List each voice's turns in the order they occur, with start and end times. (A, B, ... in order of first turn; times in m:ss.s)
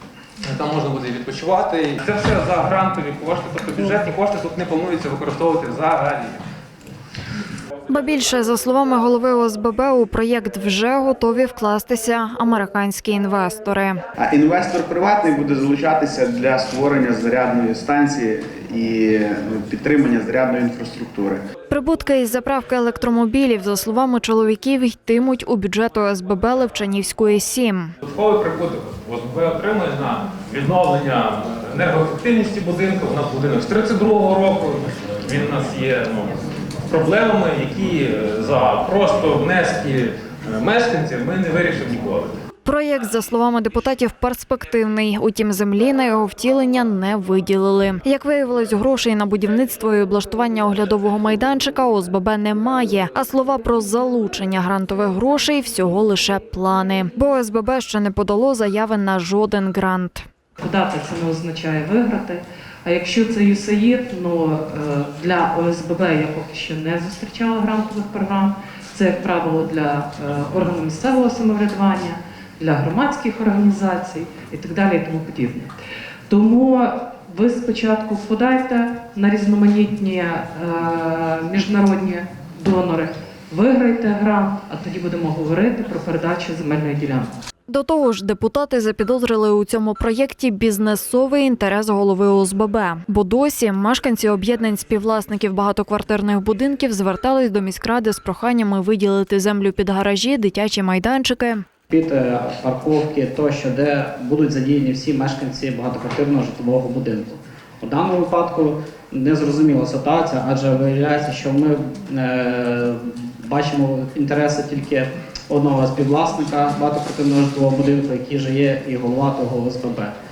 0:00.4-0:06.4 A
0:07.9-0:14.0 B
0:14.2-0:21.4 C
0:21.7-0:27.9 B
0:28.0-0:42.3 A
0:42.6-1:00.2 B
1:00.6-1:15.7 D
1:16.3-1:27.3 D
1:27.7-1:41.6 B
1:41.9-1:52.9 E
1:53.4-2:00.1 E